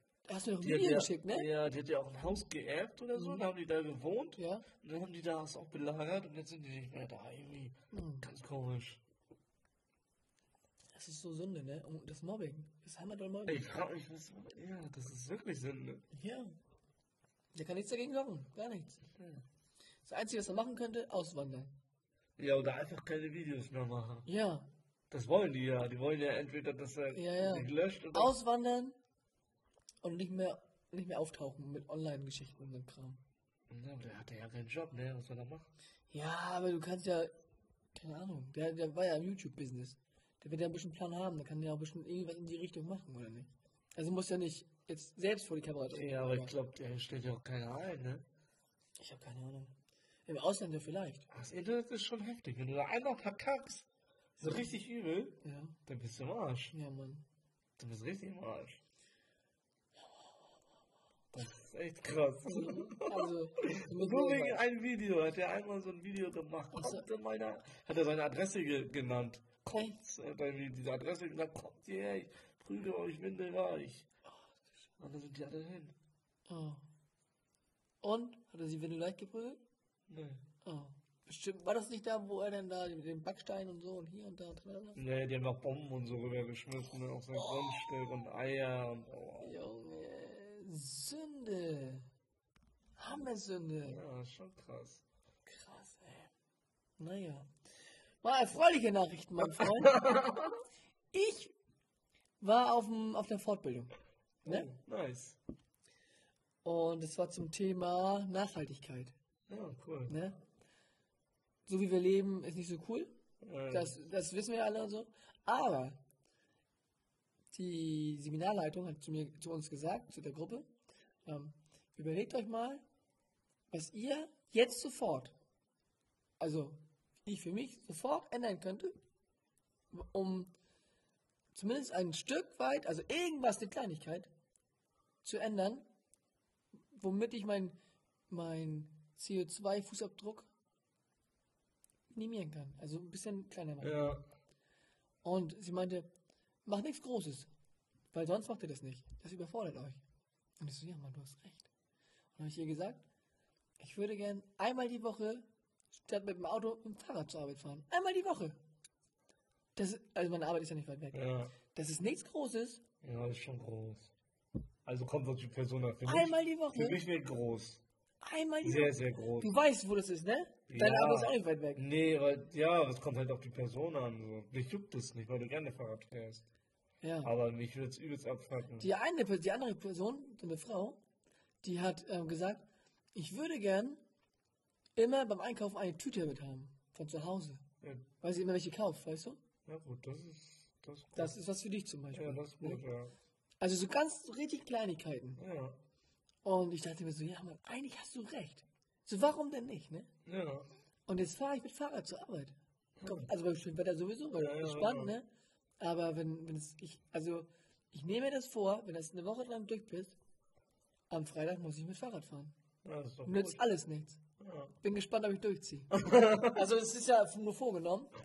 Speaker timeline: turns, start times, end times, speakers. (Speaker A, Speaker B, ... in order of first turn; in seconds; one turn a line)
Speaker A: 0.3-1.5
Speaker B: 0.6-9.0
Speaker A: 3.2-3.4
Speaker A: 4.4-4.7
Speaker A: 7.9-8.3
Speaker A: 10.9-13.7
Speaker B: 13.5-16.1
Speaker A: 16.1-16.5
Speaker A: 17.5-19.0
Speaker B: 19.2-19.4
Speaker A: 20.1-21.7
Speaker B: 22.4-24.3
Speaker A: 24.3-24.7
Speaker B: 25.1-28.3
Speaker A: 27.1-29.0
Speaker A: 30.0-33.2
Speaker B: 33.7-35.7
Speaker A: 36.1-37.3
Speaker A: 38.0-46.5
Speaker B: 45.9-48.2
Speaker A: 49.0-49.7
Speaker A: 50.3-51.3
Speaker B: 51.3-53.9
Speaker B: 54.4-56.8
Speaker A: 55.4-55.8
Speaker A: 56.7-57.2
Speaker B: 57.8-58.8
Speaker B: 61.3-74.1
Speaker A: 62.5-64.6
Speaker A: 66.8-67.0
Speaker A: 69.7-70.0
Speaker B: 75.0-76.0
Speaker A: 76.5-76.8
Speaker A: 78.0-79.6
Speaker B: 80.1-80.4
Speaker A: 80.6-85.0
Speaker B: 85.0-89.6
Speaker A: 89.4-92.0
Speaker A: 93.0-94.0
Speaker B: 93.9-96.3
Speaker A: 97.0-97.5
Speaker A: 98.2-100.2
Speaker B: 99.4-100.6
Speaker A: 101.1-101.5
Speaker A: 102.4-103.9
Speaker B: 104.5-105.4
Speaker A: 106.6-109.1
Speaker B: 109.5-110.2
Speaker A: 110.1-110.4
Speaker A: 111.7-113.1
Speaker B: 113.4-114.0
Speaker A: 113.7-116.0
Speaker A: 117.5-120.7
Speaker A: 121.3-122.8
Speaker A: 123.7-125.3
Speaker A: 126.4-128.9
Speaker A: 129.9-130.5
Speaker A: 131.5-134.3
Speaker A: 135.2-135.8
Speaker A: 136.9-137.8
Speaker A: 138.3-140.5
Speaker A: 142.1-144.2
Speaker B: 143.8-144.2
Speaker A: 145.2-146.1
Speaker A: 146.7-147.5
Speaker A: 148.1-150.0
Speaker A: 150.6-151.7
Speaker A: 152.4-153.0
Speaker A: 153.8-155.4
Speaker A: 156.0-158.6
Speaker A: 159.8-162.8
Speaker B: 161.1-161.5
Speaker B: 163.0-164.1
Speaker B: 164.8-167.8
Speaker A: 166.1-167.0
Speaker A: 168.2-171.8
Speaker B: 168.6-169.5
Speaker B: 170.7-176.4
Speaker A: 177.0-177.3
Speaker B: 177.2-178.9
Speaker A: 178.8-181.0
Speaker A: 181.6-184.0
Speaker A: 185.0-187.6
Speaker A: 188.2-189.4
Speaker B: 189.7-191.3
Speaker A: 191.2-192.8
Speaker B: 192.1-193.2
Speaker A: 193.6-195.4
Speaker B: 195.4-195.8
Speaker A: 196.4-200.1
Speaker B: 200.3-200.7
Speaker A: 201.1-205.3
Speaker B: 203.0-203.3
Speaker B: 204.3-205.1
Speaker A: 205.8-210.2
Speaker A: 211.1-212.6
Speaker B: 212.8-213.6
Speaker A: 213.2-214.2
Speaker B: 214.4-214.8
Speaker A: 214.8-218.2
Speaker B: 215.9-216.6